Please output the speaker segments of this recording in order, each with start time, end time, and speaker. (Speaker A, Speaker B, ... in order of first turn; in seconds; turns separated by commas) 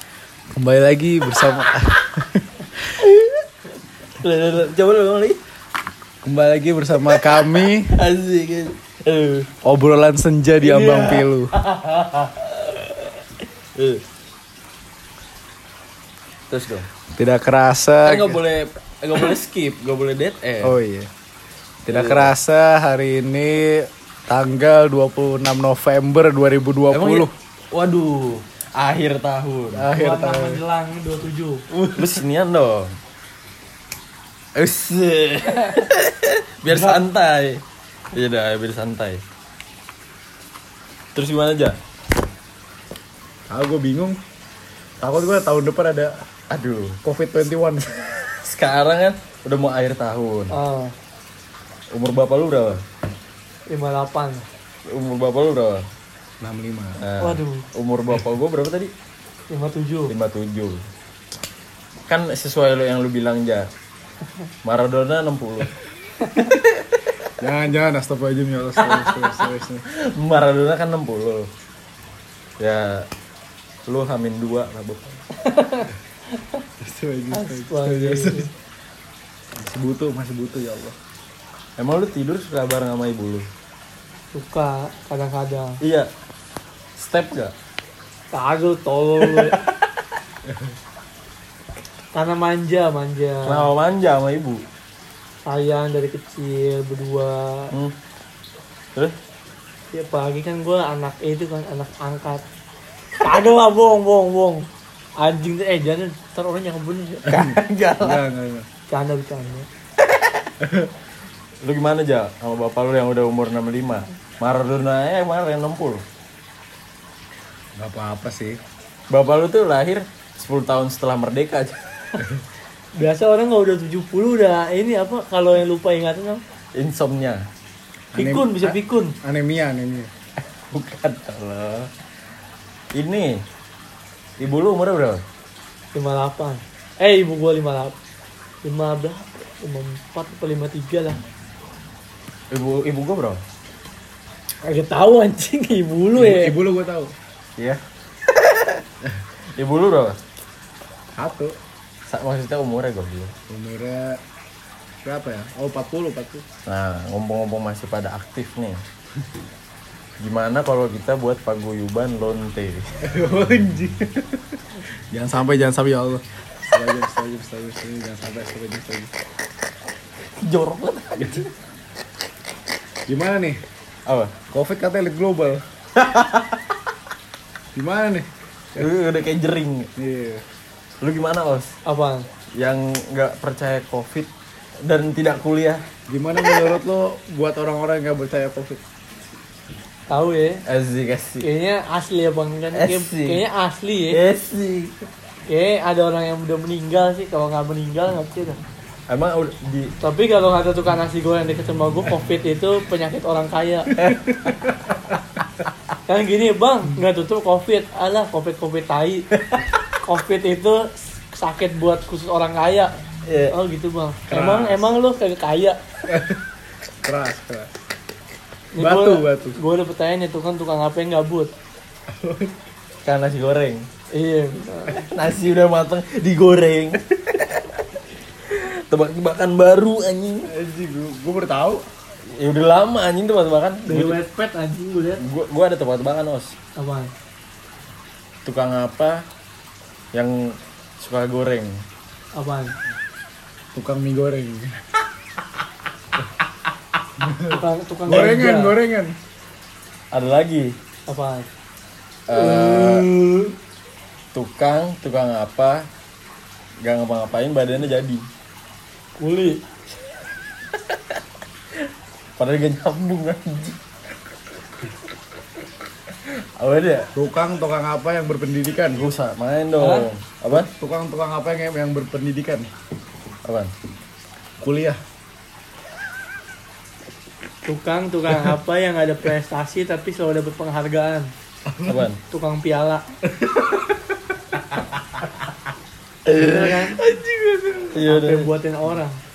Speaker A: 0.5-3.0, Speaker B: 1.4-1.7, Speaker B: 3.0-3.4, Speaker B: 4.2-5.4, Speaker A: 6.2-7.9, Speaker B: 7.1-9.5, Speaker A: 9.6-11.5, Speaker B: 10.6-13.2, Speaker B: 13.8-14.0, Speaker B: 16.5-16.9, Speaker A: 17.2-18.4, Speaker B: 18.1-20.8, Speaker A: 20.6-21.1, Speaker A: 21.9-27.3, Speaker B: 21.9-22.3, Speaker B: 26.9-29.9, Speaker A: 29.7-30.6, Speaker C: 29.9-31.6, Speaker A: 31.7-32.2, Speaker B: 31.9-33.0, Speaker B: 34.6-37.6, Speaker C: 36.7-37.0, Speaker B: 38.1-39.2, Speaker B: 41.1-41.8, Speaker A: 43.5-44.2, Speaker A: 45.0-46.1, Speaker B: 46.5-47.0, Speaker A: 47.0-48.1, Speaker B: 48.3-50.5, Speaker C: 50.5-50.9, Speaker B: 51.9-52.8, Speaker C: 53.7-54.5, Speaker B: 54.9-55.9, Speaker A: 56.4-57.0, Speaker B: 57.0-58.9, Speaker C: 57.2-57.7, Speaker C: 59.5-60.1, Speaker B: 60.1-60.9, Speaker B: 62.1-63.7, Speaker B: 64.6-65.7, Speaker B: 66.4-66.9, Speaker A: 67.4-69.8, Speaker B: 68.8-69.5, Speaker B: 70.0-71.5, Speaker B: 72.6-73.1, Speaker B: 73.9-75.2, Speaker C: 75.4-76.6, Speaker A: 76.8-78.5, Speaker C: 77.3-78.5, Speaker A: 79.6-81.0, Speaker B: 81.8-83.5, Speaker C: 84.3-85.8, Speaker B: 85.8-86.1, Speaker B: 87.0-87.5, Speaker C: 88.3-89.6, Speaker C: 92.1-93.7, Speaker B: 93.5-94.6, Speaker C: 95.5-97.7, Speaker C: 99.9-102.4, Speaker C: 103.2-104.7, Speaker C: 105.2-107.3, Speaker B: 107.3-108.2, Speaker A: 107.3-108.7, Speaker C: 108.9-109.7, Speaker B: 110.1-110.5, Speaker A: 110.6-110.9, Speaker B: 111.6-116.0, Speaker A: 117.8-118.6, Speaker B: 119.1-121.9, Speaker C: 123.0-126.4, Speaker B: 126.8-127.4, Speaker A: 128.1-130.1, Speaker C: 128.2-129.2, Speaker B: 130.7-131.9, Speaker B: 132.9-133.4, Speaker B: 134.4-135.2, Speaker C: 135.9-137.9, Speaker C: 138.6-141.2, Speaker B: 142.5-143.4, Speaker C: 144.6-146.6, Speaker A: 146.2-147.1, Speaker B: 147.6-148.8, Speaker B: 149.5-150.2, Speaker A: 151.2-151.6, Speaker B: 152.1-153.3, Speaker A: 153.5-154.2, Speaker A: 155.0-156.5, Speaker B: 156.7-158.8, Speaker B: 160.2-162.9, Speaker A: 163.0-169.1, Speaker B: 170.3-171.5, Speaker A: 173.1-173.6, Speaker B: 174.1-174.4, Speaker A: 174.5-175.7, Speaker B: 176.0-176.8, Speaker A: 177.8-178.9, Speaker B: 178.8-179.9, Speaker A: 180.0-180.4, Speaker B: 181.0-181.7, Speaker C: 181.8-182.3, Speaker B: 182.6-184.3, Speaker B: 184.8-185.8, Speaker A: 186.1-188.8, Speaker C: 190.1-190.6, Speaker B: 190.7-191.5, Speaker C: 191.4-194.2, Speaker B: 192.7-193.4, Speaker B: 194.1-194.9, Speaker C: 195.5-198.6, Speaker B: 199.1-199.9, Speaker C: 200.0-203.9, Speaker A: 203.9-205.2, Speaker B: 204.0-204.3, Speaker C: 206.1-209.3, Speaker C: 210.0-212.9, Speaker B: 213.3-213.6, Speaker C: 213.5-215.8, Speaker A: 214.3-214.8, Speaker A: 216.1-216.4, Speaker A: 217.0-217.7, Speaker C: 218.7-221.5, Speaker A: 218.8-219.6, Speaker A: 222.1-222.6, Speaker B: 223.1-223.9, Speaker C: 224.1-225.1, Speaker B: 224.9-227.9, Speaker B: 228.4-230.5, Speaker A: 230.5-231.9, Speaker B: 232.3-234.2, Speaker C: 233.9-235.2, Speaker B: 235.2-236.6, Speaker C: 236.8-237.1, Speaker B: 238.4-239.2, Speaker B: 240.1-241.8, Speaker C: 242.3-242.8, Speaker A: 243.7-244.8, Speaker A: 247.2-249.2, Speaker C: 247.5-248.8, Speaker B: 250.1-250.8, Speaker C: 251.1-251.5, Speaker B: 252.3-253.1, Speaker C: 252.4-253.5, Speaker B: 254.3-255.9, Speaker B: 256.8-258.2, Speaker C: 259.2-259.6, Speaker B: 262.4-263.8, Speaker B: 266.2-267.1, Speaker A: 267.1-269.1, Speaker B: 269.0-270.7, Speaker C: 269.8-270.1, Speaker A: 270.5-272.7, Speaker B: 273.4-273.7, Speaker A: 274.6-275.0, Speaker C: 277.6-281.3, Speaker A: 281.7-282.1, Speaker B: 281.9-282.2, Speaker C: 282.3-283.1, Speaker A: 283.3-284.6, Speaker B: 286.3-287.0, Speaker C: 286.3-287.0, Speaker A: 287.1-287.9, Speaker B: 287.9-288.5, Speaker C: 287.9-289.2